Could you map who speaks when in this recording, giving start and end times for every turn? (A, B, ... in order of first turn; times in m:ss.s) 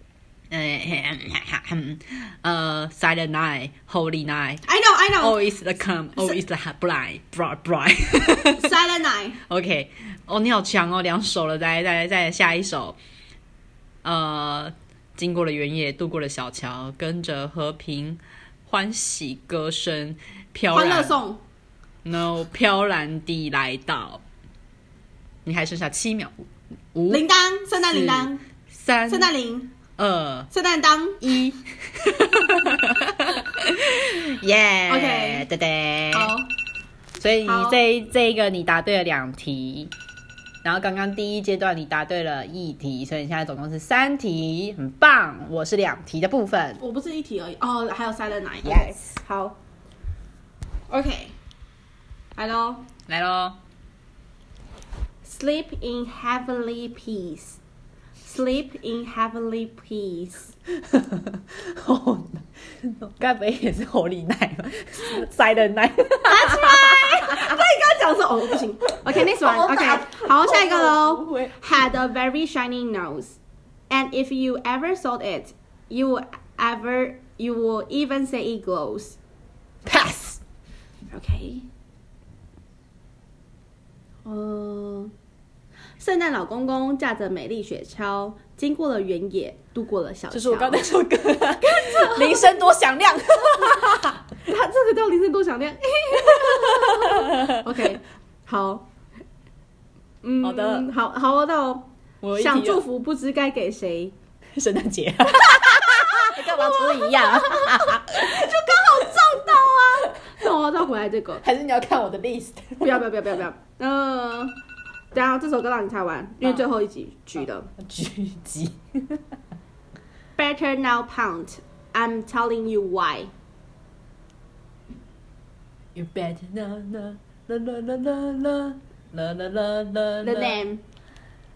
0:00.5-0:04.6 A
0:04.7-0:05.4 B
0:05.2-0:08.7 A
0:08.4-0:09.4 B
0:09.5-0:13.0 A
0:14.0-0:21.2 A
0:20.7-0:21.4 B
0:22.0-0:24.2 A
0:25.4-0:26.4 A
0:26.9-0:27.2 A
0:27.1-0:28.4 B
0:27.8-0:29.3 A
0:29.1-0:29.7 B
0:30.0-0:30.5 A
0:30.5-0:31.3 B
0:31.2-0:36.3 A
0:34.9-0:35.5 B
0:36.1-0:36.5 B
0:37.2-0:39.9 A
0:37.4-0:37.8 B
0:40.6-0:46.8 A
0:46.8-0:49.6 B
0:48.6-0:49.0 A
0:50.9-0:51.4 B
0:52.4-0:52.9 B
0:53.1-0:53.6 A
0:55.2-0:57.6 B
0:58.2-1:00.6 B
1:00.8-1:07.6 A
1:06.3-1:13.4 B
1:09.0-1:11.6 A
1:13.9-1:19.2 B
1:19.8-1:20.4 A
1:21.1-1:21.7 B
1:24.2-1:25.1 B
1:26.0-1:30.8 B
1:30.3-1:34.2 A
1:31.6-1:32.6 B
1:34.5-1:38.9 B
1:36.2-1:37.6 A
1:40.2-1:44.2 B
1:40.4-1:40.9 A
1:42.2-1:42.8 A
1:44.6-1:48.9 A
1:45.6-1:51.4 B
1:51.4-1:53.0 A
1:52.8-1:54.6 B
1:55.1-1:57.7 B
1:57.8-1:59.2 A
2:00.4-2:03.3 B
2:06.0-2:10.6 A
2:10.2-2:10.8 B